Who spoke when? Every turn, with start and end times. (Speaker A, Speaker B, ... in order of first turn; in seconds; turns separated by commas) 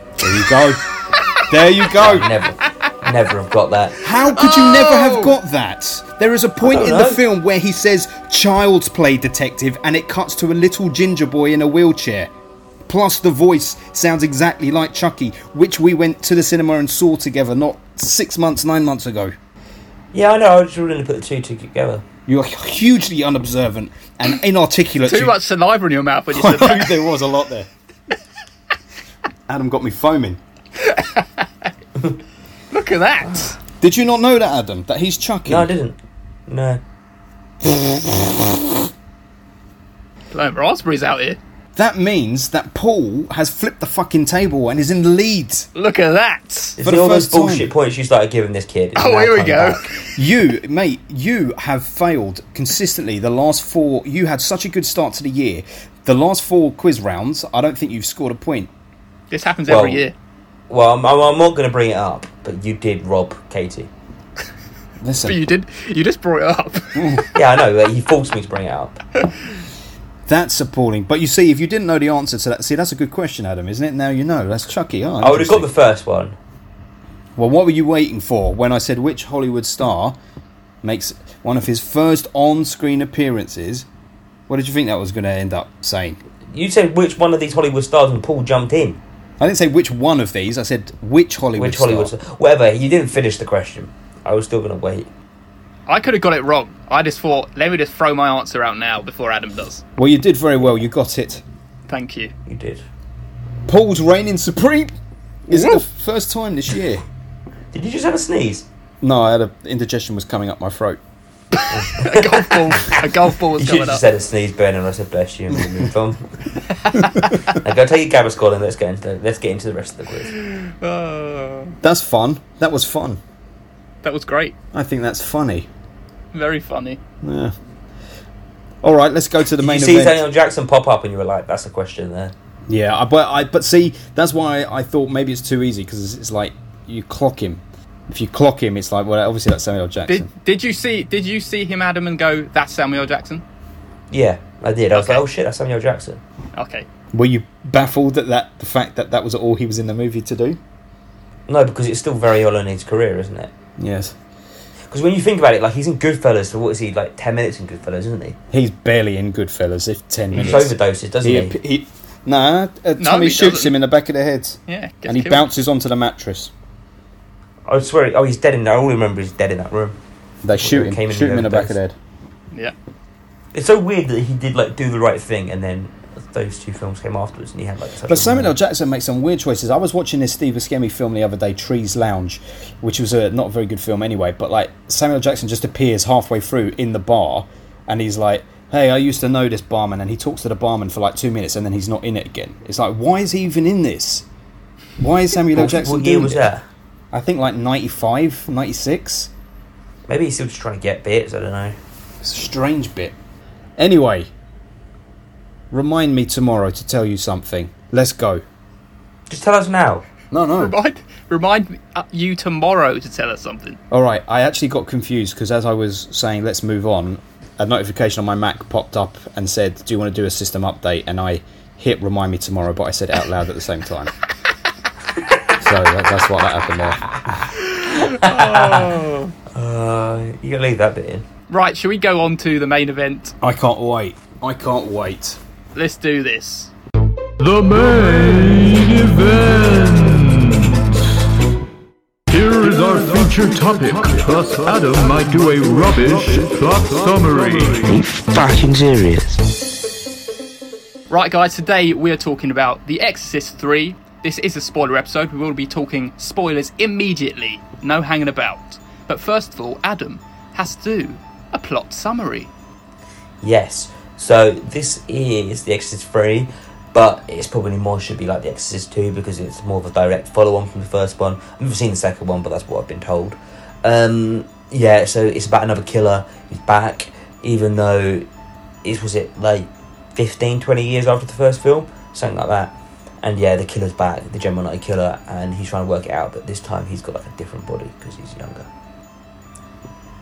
Speaker A: 0.2-0.9, Speaker B: 1.1-1.5, Speaker A: 1.4-2.3, Speaker C: 1.9-4.0, Speaker B: 2.7-2.9, Speaker A: 4.0-12.3, Speaker B: 4.2-5.3, Speaker C: 6.6-7.2, Speaker A: 12.9-19.3, Speaker C: 20.1-22.0, Speaker A: 22.3-25.4, Speaker B: 25.0-27.1, Speaker A: 26.3-27.7, Speaker A: 29.5-30.4, Speaker B: 30.8-31.6, Speaker B: 32.7-33.6, Speaker A: 33.8-35.7, Speaker C: 35.5-36.0, Speaker C: 36.5-36.8, Speaker A: 37.8-38.1, Speaker B: 40.3-41.4, Speaker A: 41.7-45.7, Speaker B: 45.7-46.8, Speaker C: 46.8-49.9, Speaker A: 46.8-47.7, Speaker B: 49.0-50.1, Speaker A: 50.1-58.7, Speaker B: 59.3-60.1, Speaker C: 59.7-60.1, Speaker C: 60.7-63.9, Speaker A: 65.0-65.4, Speaker B: 65.2-67.3, Speaker A: 66.9-67.2, Speaker C: 67.3-69.0, Speaker A: 70.3-75.7, Speaker C: 75.2-76.3, Speaker A: 77.3-80.2, Speaker A: 80.8-83.8, Speaker A: 84.5-86.2, Speaker C: 86.5-89.0, Speaker A: 89.4-92.1, Speaker C: 91.5-95.1, Speaker B: 95.9-99.8, Speaker A: 100.0-101.4, Speaker B: 101.9-102.3, Speaker C: 102.5-102.8, Speaker A: 103.7-104.9, Speaker A: 105.5-107.0, Speaker B: 105.5-105.8, Speaker C: 107.7-108.7, Speaker A: 109.0-111.0, Speaker B: 111.5-114.0, Speaker C: 111.7-112.9, Speaker C: 113.5-116.4, Speaker B: 116.8-117.5, Speaker A: 117.0-117.3, Speaker C: 117.5-120.3, Speaker B: 120.3-121.8, Speaker A: 121.8-123.2, Speaker B: 124.0-124.5, Speaker A: 124.7-125.7, Speaker B: 126.3-127.0, Speaker A: 127.2-127.5, Speaker A: 128.8-130.2, Speaker C: 129.6-132.3, Speaker A: 132.7-140.3, Speaker B: 140.1-143.4, Speaker C: 144.1-146.2, Speaker B: 144.9-145.2, Speaker B: 146.5-146.8, Speaker A: 147.1-150.6, Speaker C: 151.5-153.5, Speaker A: 153.8-154.1, Speaker C: 154.9-158.4, Speaker A: 158.5-166.5, Speaker C: 160.3-161.5, Speaker B: 163.0-163.8, Speaker B: 164.7-165.4, Speaker C: 167.7-170.0, Speaker A: 170.4-171.9, Speaker C: 170.6-171.8, Speaker C: 173.5-178.5, Speaker A: 178.1-194.2, Speaker A: 195.0-196.4, Speaker C: 195.5-196.6, Speaker A: 197.1-199.3, Speaker C: 200.1-201.8, Speaker A: 202.2-203.1, Speaker A: 203.8-204.3, Speaker A: 205.7-208.4, Speaker C: 209.3-210.0, Speaker A: 210.3-210.7, Speaker B: 210.5-213.8, Speaker A: 213.9-224.1, Speaker A: 225.5-227.1, Speaker B: 227.6-229.3, Speaker C: 227.9-228.9, Speaker C: 229.5-231.2, Speaker B: 231.5-233.3, Speaker A: 233.4-235.4, Speaker B: 235.7-236.7, Speaker D: 237.4-240.8, Speaker D: 242.3-247.8, Speaker C: 247.8-249.5, Speaker B: 251.1-262.5, Speaker C: 263.4-278.2, Speaker C: 278.8-288.7